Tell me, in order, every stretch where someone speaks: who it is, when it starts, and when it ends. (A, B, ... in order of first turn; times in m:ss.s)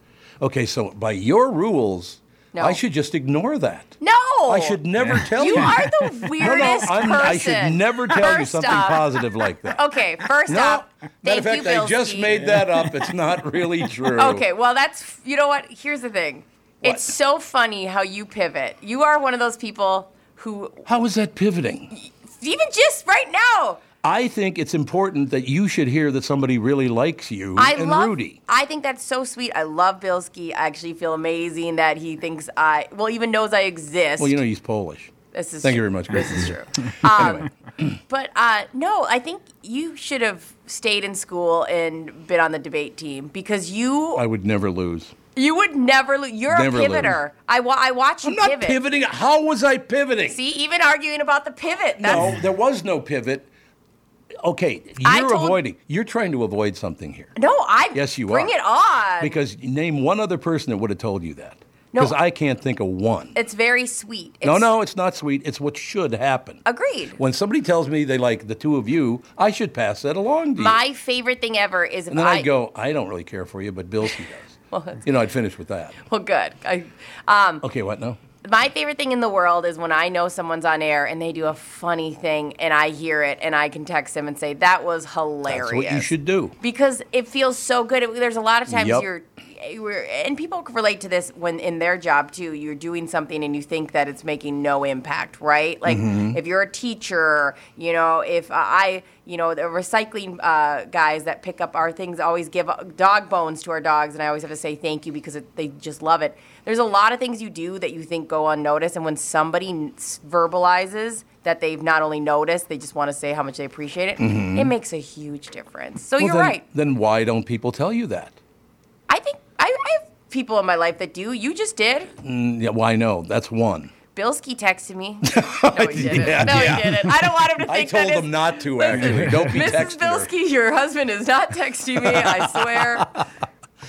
0:00.4-0:09.8 A
0:02.5-0:02.8 B
0:04.0-0:09.2 B
0:09.7-0:12.5 B
0:10.4-0:14.4 A
0:14.2-0:20.8 B
0:16.8-0:17.1 A
0:20.8-0:21.9 A
0:21.9-0:23.8 B
0:24.0-0:28.4 A
0:27.6-0:34.4 B
0:34.2-0:37.9 A
0:35.3-0:37.5 B
0:38.1-0:44.2 B
0:44.1-0:45.1 A
0:45.3-0:48.8 B
0:46.5-0:47.2 A
0:48.2-0:50.4 A
0:50.3-0:52.3 B
0:52.0-0:53.5 A
0:54.4-0:57.3 A
0:55.0-0:55.6 B
0:57.4-0:59.4 B
0:57.9-0:58.5 A
0:59.2-1:03.4 A
1:03.3-1:04.7 B
1:04.4-1:06.6 A
1:06.6-1:07.2 B
1:07.2-1:10.8 A
1:10.6-1:12.5 B
1:12.1-1:16.0 A
1:14.7-1:15.0 B
1:16.0-1:17.6 B
1:17.6-1:18.2 A
1:18.4-1:56.6 B
1:25.5-1:26.5 A
1:28.7-1:29.0 A
1:35.8-1:36.4 A
1:54.2-1:54.7 A
1:56.2-1:58.4 A
1:59.1-2:02.1 B
2:02.2-2:03.9 A
2:04.1-2:13.1 B
2:05.2-2:10.3 A
2:12.0-2:13.2 A